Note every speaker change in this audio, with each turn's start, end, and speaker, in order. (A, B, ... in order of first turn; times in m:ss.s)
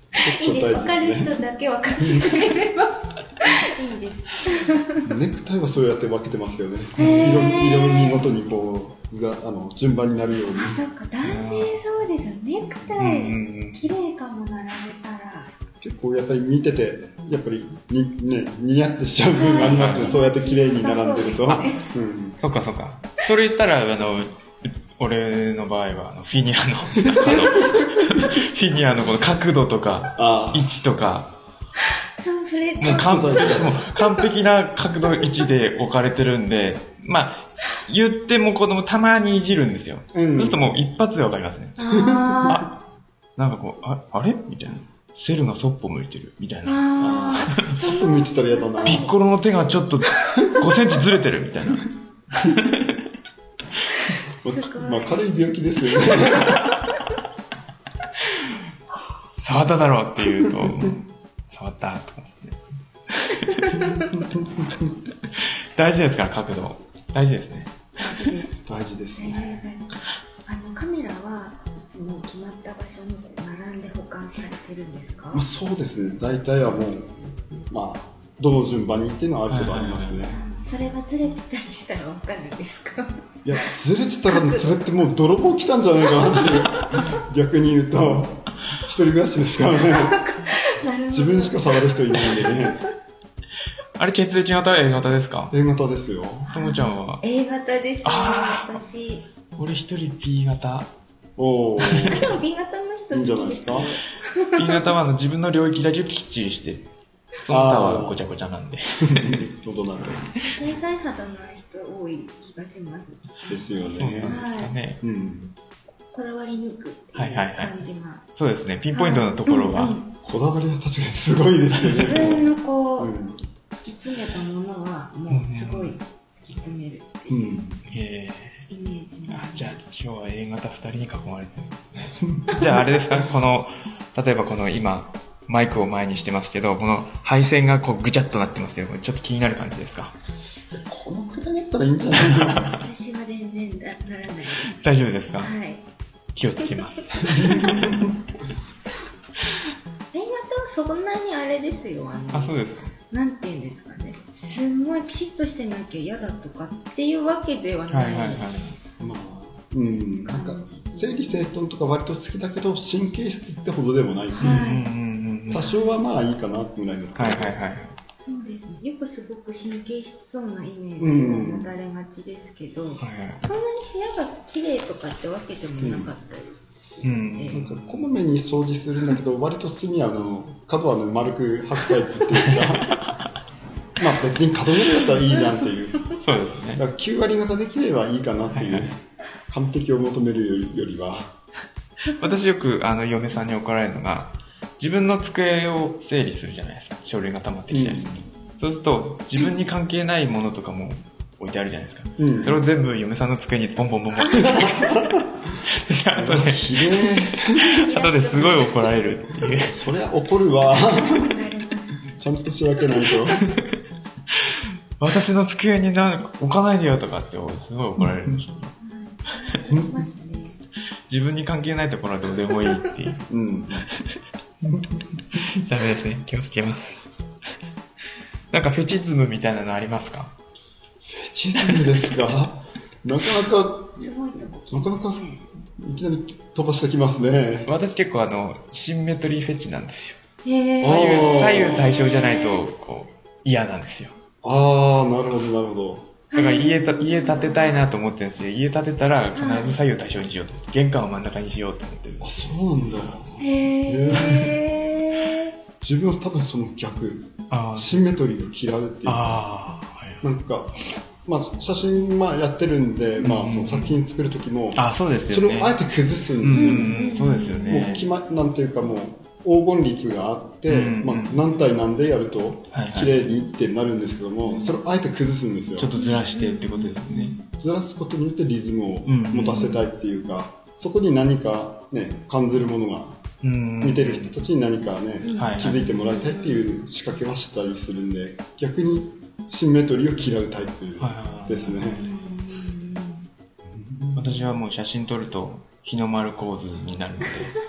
0:00.2-0:05.1 A
0:00.2-0:01.3 B
0:02.0-0:02.4 B
0:05.0-0:10.8 B
0:07.0-0:08.3 A
0:07.0-0:07.5 C
0:10.6-0:15.6 A
0:11.2-0:11.8 C
0:13.0-0:13.8 C
0:15.8-0:22.4 B
0:19.3-0:21.9 A
0:19.8-0:20.2 C
0:22.4-0:31.4 C
0:27.1-0:27.8 B
0:30.2-0:30.7 B
0:32.2-0:34.2 A
0:32.8-0:33.8 B
0:32.8-0:41.8 C
0:40.1-0:40.6 B
0:41.8-0:42.6 A
0:42.0-0:42.6 B
0:42.5-0:42.7 C
0:43.4-0:46.9 C
0:46.7-0:49.2 A
0:47.0-0:49.1 B
0:48.8-0:52.9 C
0:54.0-0:55.4 A
0:54.4-0:56.7 B
0:55.9-0:56.6 A
0:59.4-1:03.9 C
1:00.6-1:00.9 B
1:03.5-1:04.2 A
1:04.1-1:04.9 B
1:05.3-1:08.3 C
1:08.0-1:15.4 A
1:08.7-1:09.6 B
1:15.3-1:20.4 B
1:19.5-1:20.2 C
1:20.3-1:23.7 A
1:23.4-1:30.2 B
1:24.3-1:24.7 A
1:26.4-1:26.9 C
1:29.8-1:32.7 A
1:31.1-1:32.8 B
1:34.0-1:35.5 C
1:35.5-1:36.5 B
1:36.5-1:39.2 A
1:36.5-1:37.2 C
1:38.0-1:38.8 C
1:39.6-1:40.9 C
1:41.4-1:42.3 B
1:41.8-1:42.3 C
1:42.1-1:44.9 A
1:43.1-1:43.9 B
1:44.6-1:46.9 C
1:47.4-1:49.5 C
1:47.5-1:48.2 B
1:49.0-1:50.4 B
1:50.5-1:53.2 A
1:53.5-1:54.4 B
1:53.8-1:55.0 C
1:54.2-1:54.8 A
1:55.0-1:55.6 B
1:56.1-1:58.2 A
1:57.2-1:57.8 C
1:58.4-2:00.0 C
1:58.9-2:00.1 A
2:00.2-2:02.5 B
2:01.8-2:02.4 C
2:01.9-2:03.2 A
2:03.0-2:03.4 B
2:03.7-2:07.6 A
2:05.3-2:06.0 C
2:07.3-2:07.8 B
2:07.9-2:08.6 C
2:08.7-2:09.8 A
2:09.3-2:20.1 C
2:12.4-2:12.8 B
2:20.7-2:22.8 B
2:22.2-2:22.8 C
2:22.7-2:24.8 A
2:24.7-2:25.5 C
2:25.4-2:25.8 A
2:26.4-2:28.1 C
2:27.2-2:28.0 A
2:27.2-2:28.1 B
2:30.1-2:38.5 A
2:32.3-2:32.9 C
2:37.9-2:38.8 C
2:39.0-2:44.8 B
2:40.3-2:41.4 A
2:44.3-2:44.9 A
2:44.4-2:45.7 C
2:45.5-2:47.6 B
2:47.2-2:48.0 C
2:48.2-2:57.6 A
2:51.0-2:51.7 B
2:53.0-2:53.4 C
2:55.8-2:56.1 B
2:57.0-2:57.7 C
2:57.5-3:03.0 B
3:02.4-3:03.1 C
3:04.0-3:06.2 B
3:05.3-3:06.2 A
3:06.2-3:06.8 C
3:06.7-3:11.3 B
3:08.5-3:08.9 C
3:12.0-3:29.8 C
3:17.7-3:18.2 B
3:22.2-3:22.6 B
3:24.2-3:24.6 A
3:24.3-3:25.6 B
3:26.1-3:27.8 B
3:27.6-3:28.9 A
3:29.4-3:31.4 B
3:30.9-3:32.2 A
3:32.1-3:33.5 B
3:32.9-3:33.5 A
3:34.3-3:38.8 C
3:38.0-3:38.4 B
3:38.8-3:40.6 A
3:39.7-3:40.0 B
3:41.1-3:43.2 C
3:43.3-3:43.9 B
3:43.9-3:44.1 C
3:44.6-3:45.6 B
3:45.5-3:47.1 C
3:48.5-3:50.4 C
3:51.0-3:54.1 B
3:51.6-3:52.1 C
3:54.0-3:55.4 A
3:54.7-3:57.7 B
3:57.7-4:00.2 C
4:00.4-4:02.6 A
4:00.8-4:01.9 B
4:00.8-4:04.1 C
4:04.4-4:06.2 B
4:06.3-4:07.8 A
4:06.4-4:12.5 C
4:09.4-4:09.8 A
4:12.2-4:14.6 B
4:13.4-4:15.6 A
4:15.8-4:19.4 B
4:17.5-4:18.1 C
4:19.1-4:20.3 C
4:20.2-4:27.0 B
4:23.2-4:23.9 C
4:24.7-4:25.7 C
4:26.4-4:28.1 C
4:26.5-4:27.8 A
4:27.6-4:35.9 B
4:30.7-4:31.4 C
4:32.7-4:33.2 C
4:34.4-4:34.7 A
4:35.8-4:37.4 C
4:36.0-4:37.5 A
4:37.6-4:43.2 B
4:39.1-4:39.8 C
4:43.4-4:44.3 C
4:43.8-4:52.0 B
4:45.2-4:46.8 A
4:45.4-4:45.8 C
4:51.0-4:52.1 C
4:51.8-4:53.3 A
4:53.7-4:54.4 B
4:54.2-4:57.6 C